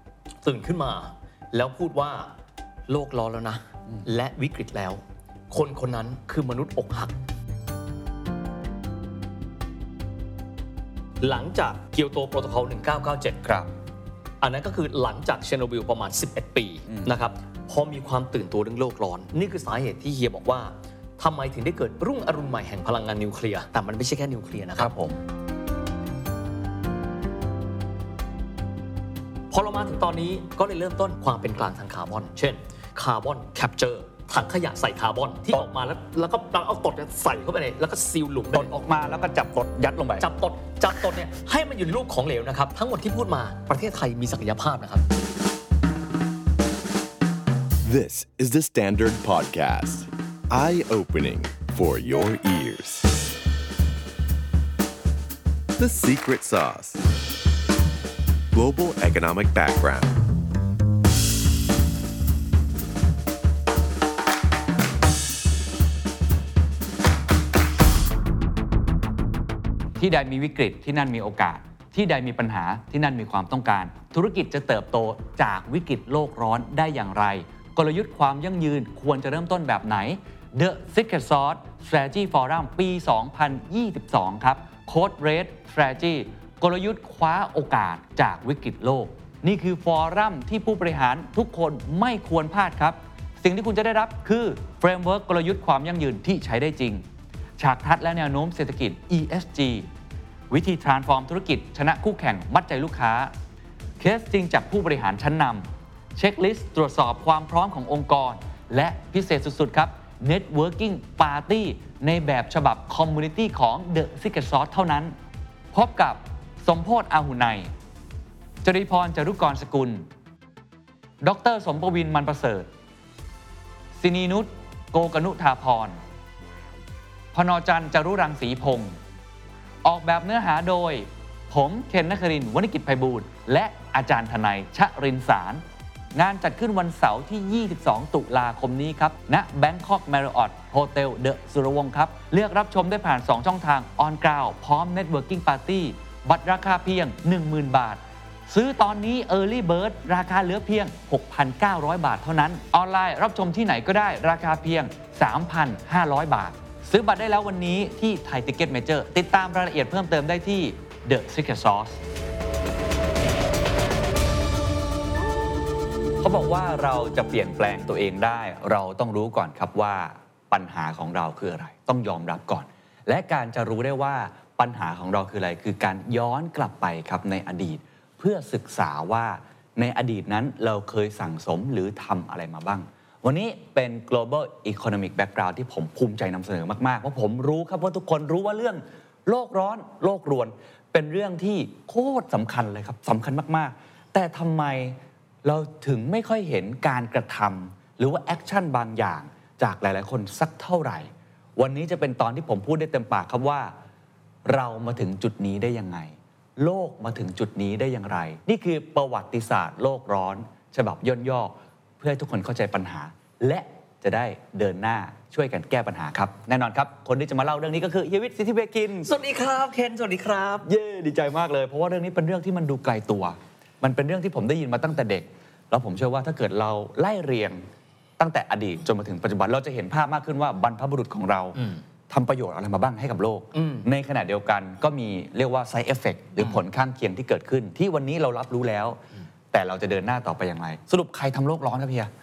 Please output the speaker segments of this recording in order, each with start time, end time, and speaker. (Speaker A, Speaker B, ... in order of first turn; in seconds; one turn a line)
Speaker A: 0.4-2.3
Speaker A: 2.9-7.1
Speaker A: 11.2-13.4
Speaker B: 13.4-13.7
Speaker A: 14.4-24.9
Speaker B: 24.8-25.2
Speaker A: 29.5-38.7
Speaker B: 38.5-40.2
Speaker A: 40.2-45.0
Speaker C: 47.8-53.2
Speaker C: 55.8-57.0
Speaker C: 58.5-60.2
Speaker B: 70.0-97.0
Speaker B: 97.6-99.9
Speaker B: 100.5-103.3
Speaker B: 104.0-115.1
Speaker B: 115.7-117.7
Speaker B: 118.6-120.1
Speaker B: 121.2-122.7
Speaker B: 124.0-126.0
Speaker B: 127.3-129.0
Speaker B: 129.8-135.6
Speaker B: 136.1-162.0
Speaker B: 166.2-203.7
Speaker B: 204.4-219.1
Speaker A: 219.0-220.7
Speaker B: 220.6-227.7
Speaker B: 228.2-231.6
Speaker A: 231.5-231.8
Speaker B: 232.1-239.0
Speaker A: 233.5-233.8
Speaker B: 239.5-242.1